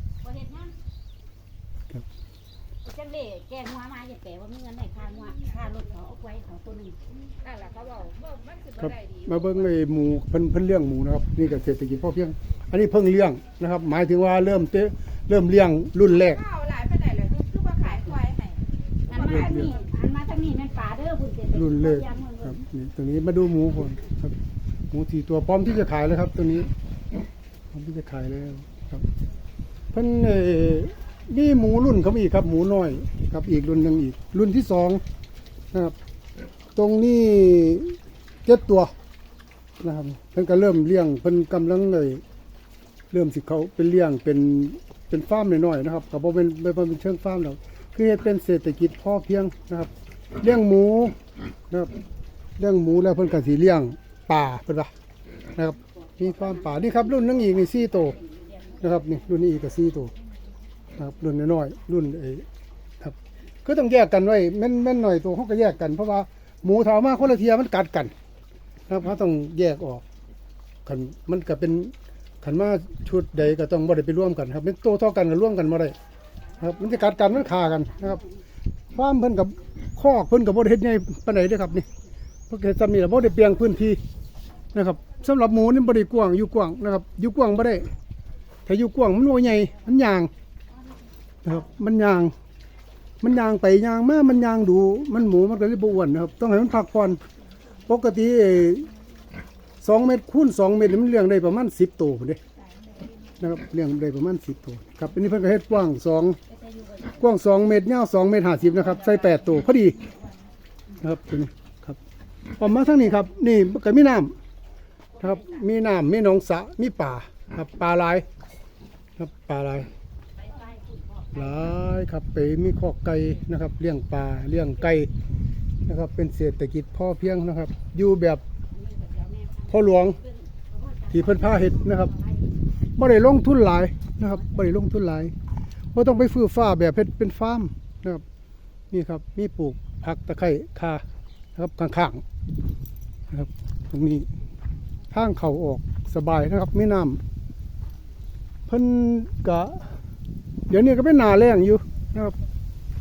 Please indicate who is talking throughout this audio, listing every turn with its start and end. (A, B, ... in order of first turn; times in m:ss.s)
0:00.2-0:00.7 A
0:02.8-0:07.0 A
0:07.3-0:09.8 B
0:08.8-0:16.4 C
0:16.2-0:19.7 B
0:19.1-0:22.5 A
0:19.2-0:19.8 C
0:21.5-0:24.4 C
0:24.9-0:26.7 C
0:27.7-0:29.1 C
0:29.9-0:35.0 C
0:36.8-0:38.9 C
0:39.8-0:42.2 C
0:43.1-0:51.2 C
0:52.6-0:54.9 C
0:55.6-0:58.2 C
0:56.6-0:57.4 A
0:58.4-0:58.8 A
0:58.8-1:00.1 C
1:01.0-1:02.5 C
1:03.0-1:08.1 C
1:08.9-1:10.0 C
1:10.8-1:16.0 C
1:16.6-1:18.2 C
1:16.6-1:18.2 A
1:18.9-1:21.9 C
1:22.5-1:24.0 C
1:24.7-1:27.9 C
1:28.7-1:30.3 C
1:31.4-1:32.3 C
1:33.2-1:37.2 C
1:37.9-1:38.9 C
1:39.8-1:42.4 C
1:43.4-1:46.4 C
1:46.5-1:47.2 A
1:47.2-1:50.0 C
1:51.0-1:52.0 C
1:52.6-1:54.4 C
1:55.2-1:58.3 C
1:59.2-1:59.9 C
2:00.4-2:01.5 A
2:01.3-2:05.1 C
2:05.9-2:08.4 C
2:08.7-2:12.4 A
2:09.7-2:10.2 C
2:11.1-2:12.1 C
2:13.0-2:15.3 C
2:15.9-2:18.2 C
2:18.9-2:21.0 C
2:21.6-2:22.2 C
2:23.3-2:24.3 C
2:25.1-2:27.2 C
2:28.7-2:30.0 C
2:30.7-2:32.4 C